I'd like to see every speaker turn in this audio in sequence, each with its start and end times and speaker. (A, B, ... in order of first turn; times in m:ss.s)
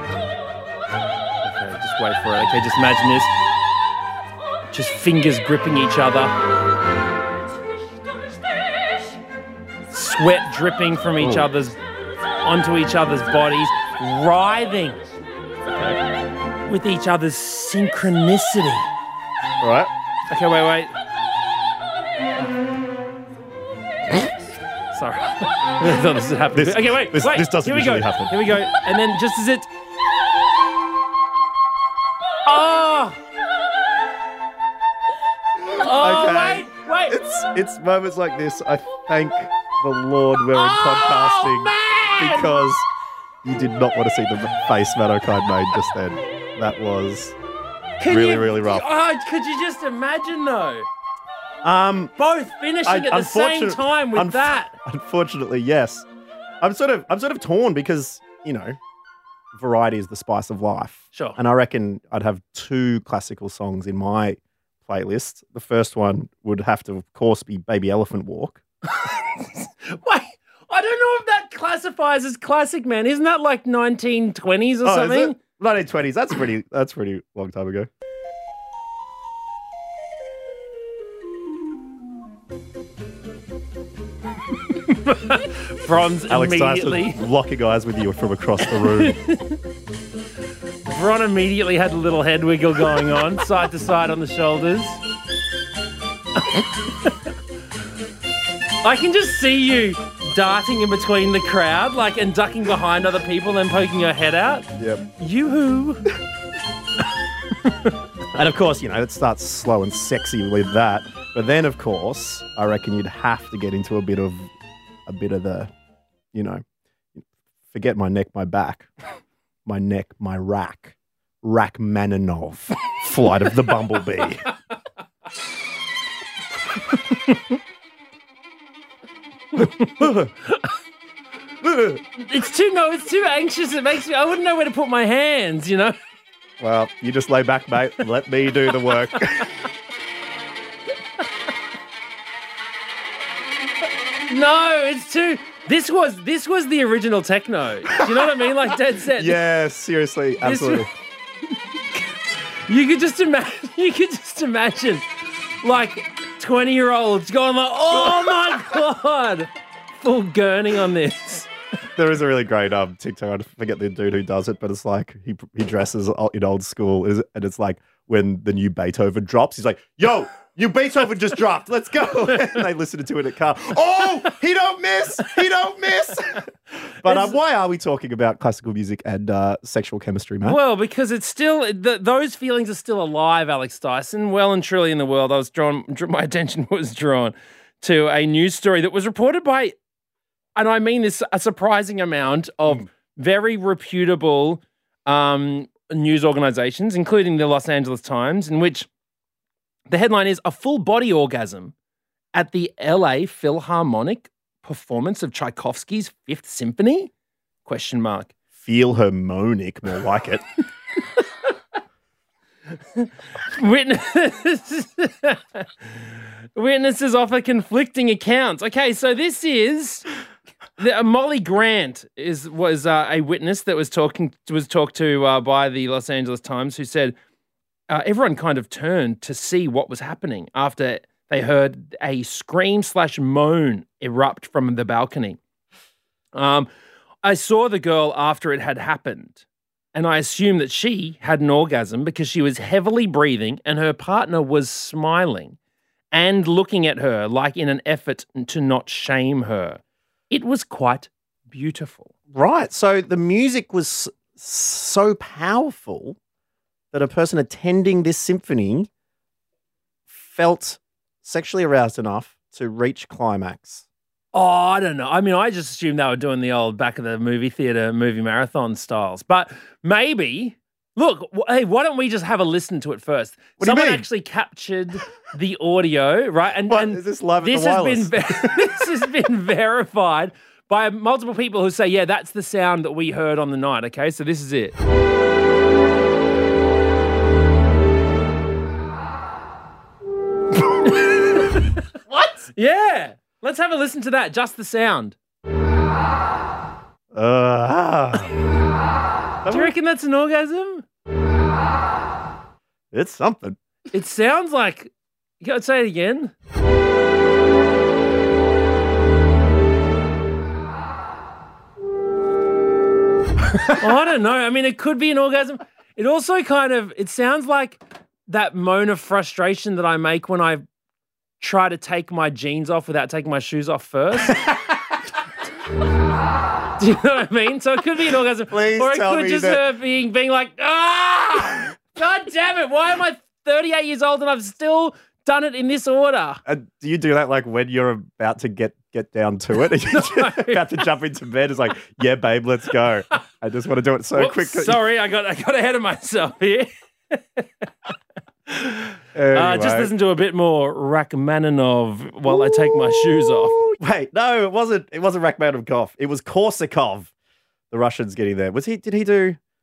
0:01.4-0:03.3 A
0:04.7-0:06.3 A
0:09.9-0:11.8 A
0:11.2-0:11.5 B
0:12.4-0:15.0 A
0:15.7-0:16.0 B
0:16.7-0:18.9 A
0:19.6-0:19.9 B
0:20.3-0:20.9 A
0:24.9-0:29.7 A
0:26.5-0:28.7 B
0:32.4-0:33.2 A
0:35.6-0:42.9 B
0:35.7-0:37.2 A
0:40.6-0:42.6 A
0:43.4-0:47.4 B
0:48.0-0:50.9 A
0:48.1-0:48.9 B
0:51.6-0:52.1 B
0:52.2-0:54.7 A
0:52.8-0:56.1 B
0:56.6-0:58.8 B
0:59.5-1:08.6 B
1:01.1-1:01.4 A
1:09.0-1:15.4 A
1:14.8-1:17.9 B
1:24.7-1:27.2 A
1:26.3-1:29.2 B
1:28.7-1:29.6 A
1:30.9-1:35.0 A
1:36.5-1:37.1 A
1:38.8-1:46.1 A
1:44.8-1:45.0 B
1:48.3-1:54.5 B
1:55.1-1:55.7 B
1:56.3-1:56.6 B
1:57.2-1:58.9 B
1:59.7-2:04.4 B
2:09.6-2:10.7 A
2:09.6-2:10.3 B
2:11.6-2:12.0 B
2:12.2-2:16.0 A
2:16.6-2:19.5 B
2:24.3-2:29.4 A
2:29.2-2:30.9 B
2:30.4-2:30.9 A
2:32.7-2:35.0 A
2:35.6-2:41.5 A
2:37.9-2:38.6 B
2:42.0-2:56.5 B
2:57.0-3:00.6 B
2:57.0-2:57.4 A
3:00.4-3:09.8 A
3:10.6-3:18.9 A
3:19.9-3:21.7 A
3:22.3-3:27.1 A
3:27.6-3:28.3 A
3:28.6-3:30.4 B
3:33.0-3:35.9 A
3:36.6-3:40.1 A
3:40.8-3:47.2 A
3:47.9-3:55.4 A
3:56.3-3:56.7 A
3:57.2-4:05.6 A
4:06.1-4:12.1 A
4:12.3-4:16.2 B
4:16.9-4:18.9 B
4:20.1-4:23.8 B
4:24.3-4:44.8 A
4:33.6-4:34.1 B
4:36.7-4:38.9 B
4:50.6-4:55.2 A
4:57.1-4:58.4 B
4:59.4-4:59.8 B
4:59.5-5:00.8 A
5:02.9-5:03.6 B
5:03.9-5:06.3 A
5:13.7-5:20.6 A
5:21.4-5:24.5 A
5:26.8-5:36.4 A
5:28.5-5:29.6 B
5:36.5-5:44.8 B
5:39.9-5:40.8 A
5:44.1-5:47.7 A
5:48.5-5:53.6 A
5:49.1-5:49.9 B
5:52.3-5:53.0 B
5:53.6-5:57.1 B
5:57.7-5:59.4 B